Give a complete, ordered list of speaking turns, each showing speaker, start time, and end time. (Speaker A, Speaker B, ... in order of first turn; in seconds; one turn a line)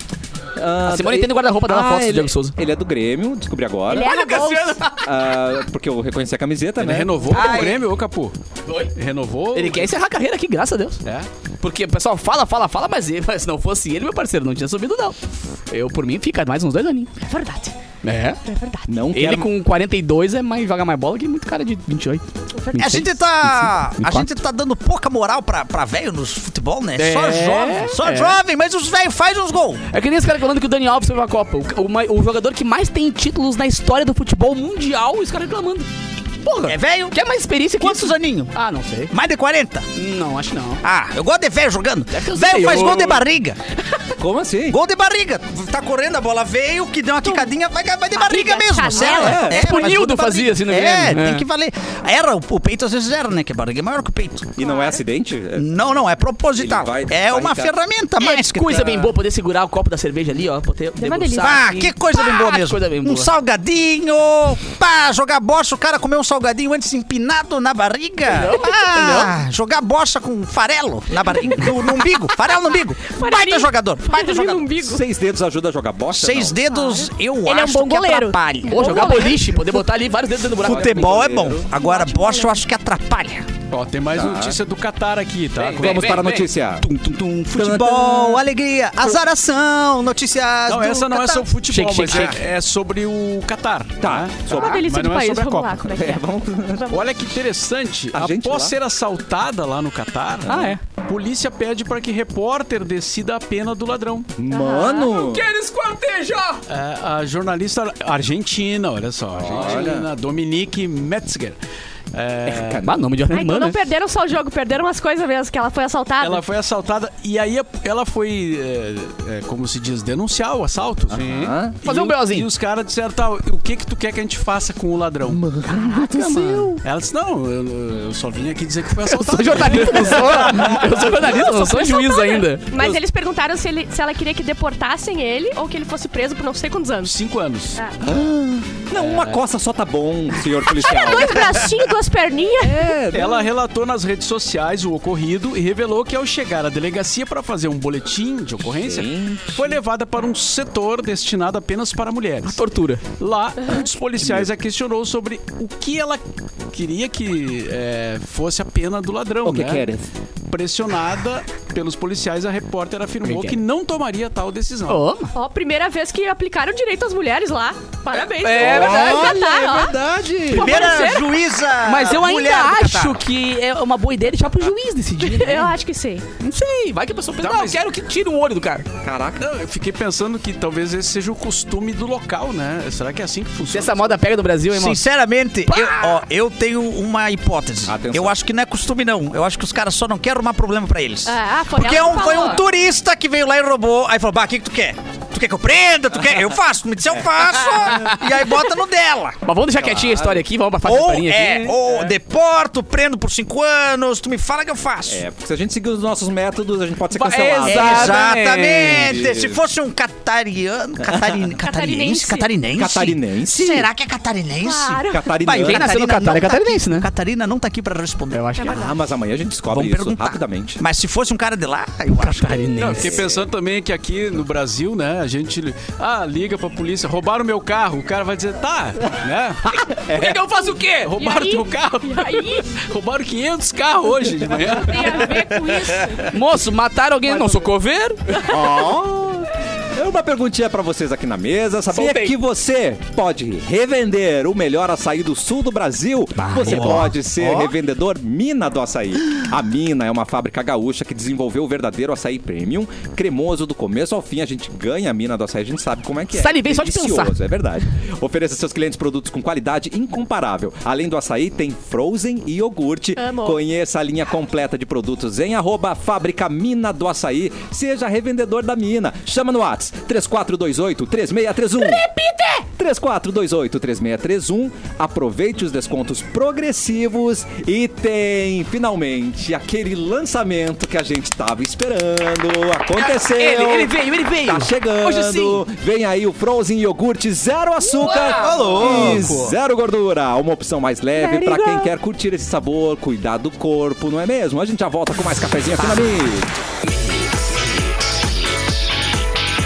Speaker A: 0.5-4.1
Speaker B: 0.8-2.5
Speaker C: 3.9-4.9
Speaker B: 3.9-4.9
Speaker A: 5.0-7.3
Speaker D: 6.8-8.3
Speaker B: 7.3-7.8
Speaker E: 7.3-7.8
Speaker B: 8.7-8.9
Speaker D: 8.9-9.9
Speaker B: 9.5-11.0
Speaker B: 11.6-15.2
Speaker B: 15.7-17.1
Speaker C: 17.2-17.7
Speaker B: 18.0-18.4
Speaker C: 18.4-18.9
Speaker A: 18.9-19.5
Speaker B: 19.1-24.3
Speaker E: 22.7-29.8
Speaker B: 26.9-28.4
Speaker B: 29.9-35.9
Speaker B: 36.4-39.1
Speaker E: 36.6-37.2
Speaker E: 37.8-38.5
Speaker E: 39.1-39.9
Speaker B: 39.9-40.8
Speaker E: 40.8-43.6
Speaker B: 42.1-43.2
Speaker A: 44.2-44.8
Speaker E: 44.7-54.6
Speaker C: 47.2-47.5
Speaker C: 48.1-50.0
Speaker A: 49.0-49.7
Speaker B: 49.3-51.5
Speaker A: 54.6-55.8
Speaker C: 54.6-55.0
Speaker E: 55.5-59.1
Speaker A: 56.5-57.8
Speaker B: 58.2-63.3
Speaker C: 61.0-61.6
Speaker E: 61.4-74.7
Speaker B: 68.2-69.3
Speaker C: 71.4-71.7
Speaker C: 73.1-75.0
Speaker A: 74.8-76.6
Speaker E: 76.1-79.4
Speaker C: 76.7-79.6
Speaker B: 78.7-81.3
Speaker E: 80.6-83.5
Speaker A: 80.6-81.7
Speaker C: 81.7-82.6
Speaker D: 83.7-86.3
Speaker A: 84.1-84.6
Speaker B: 85.6-86.5
Speaker A: 85.8-86.8
Speaker E: 86.8-91.5
Speaker A: 87.5-88.4
Speaker D: 90.7-95.8
Speaker B: 91.7-92.4
Speaker E: 92.1-92.3
Speaker A: 94.0-94.8
Speaker C: 94.5-96.2
Speaker A: 95.8-97.0
Speaker D: 96.9-104.3
Speaker A: 98.1-98.7
Speaker A: 100.4-100.7
Speaker B: 100.5-100.8
Speaker A: 104.4-105.5
Speaker C: 104.5-105.2
Speaker B: 105.2-106.6
Speaker D: 106.7-111.6
Speaker A: 109.4-110.1
Speaker D: 112.1-112.9
Speaker A: 112.5-113.0
Speaker B: 112.8-113.8
Speaker C: 113.3-116.4
Speaker D: 116.2-121.3
Speaker A: 121.1-121.8
Speaker B: 121.1-122.5
Speaker D: 121.8-125.4
Speaker A: 125.3-126.8
Speaker B: 125.7-126.8
Speaker D: 126.8-131.3
Speaker B: 129.1-132.7
Speaker C: 131.2-137.1
Speaker D: 137.0-137.8
Speaker A: 138.0-141.7
Speaker D: 139.0-139.4
Speaker C: 140.7-142.9
Speaker A: 142.6-143.5
Speaker D: 143.1-159.9
Speaker A: 148.7-149.8
Speaker B: 152.4-153.0
Speaker A: 154.2-154.5
Speaker A: 159.4-160.1
Speaker D: 160.5-165.0
Speaker B: 163.2-163.6
Speaker B: 164.9-165.3
Speaker C: 165.3-169.9
Speaker B: 168.4-169.4
Speaker A: 168.6-170.9
Speaker C: 170.5-171.3
Speaker E: 170.5-173.2
Speaker B: 170.7-171.1
Speaker B: 171.8-175.7
Speaker C: 175.2-176.2
Speaker B: 176.4-178.9
Speaker D: 177.4-177.8
Speaker A: 179.0-179.4
Speaker D: 179.4-184.0
Speaker B: 183.7-185.0
Speaker E: 184.7-199.4
Speaker B: 185.7-186.2
Speaker A: 187.8-188.4
Speaker C: 191.2-192.6
Speaker A: 197.1-198.1
Speaker B: 197.8-198.2
Speaker B: 199.4-201.8
Speaker A: 199.7-200.5
Speaker E: 200.8-205.2
Speaker A: 205.1-209.6
Speaker B: 207.1-209.3
Speaker E: 207.6-218.6
Speaker A: 211.0-211.4
Speaker C: 211.6-212.5
Speaker A: 212.7-213.9
Speaker C: 214.6-215.3
Speaker A: 215.1-215.9
Speaker B: 215.6-217.1
Speaker B: 218.3-218.8
Speaker C: 218.6-218.9
Speaker A: 218.7-220.8
Speaker E: 219.7-222.7
Speaker B: 222.1-223.2
Speaker D: 222.8-229.6
Speaker A: 223.0-223.4
Speaker A: 229.7-230.4
Speaker B: 230.1-231.1
Speaker D: 231.0-236.2
Speaker C: 231.2-232.8
Speaker C: 234.7-236.3
Speaker B: 236.3-238.3
Speaker A: 238.4-272.1
Speaker B: 241.9-242.3
Speaker B: 246.4-247.7
Speaker E: 246.7-247.0
Speaker B: 256.3-257.3
Speaker C: 263.2-263.6
Speaker B: 271.8-272.6
Speaker A: 272.8-296.5
Speaker B: 283.0-285.6
Speaker B: 287.9-289.4
Speaker E: 288.3-289.5
Speaker B: 291.2-291.9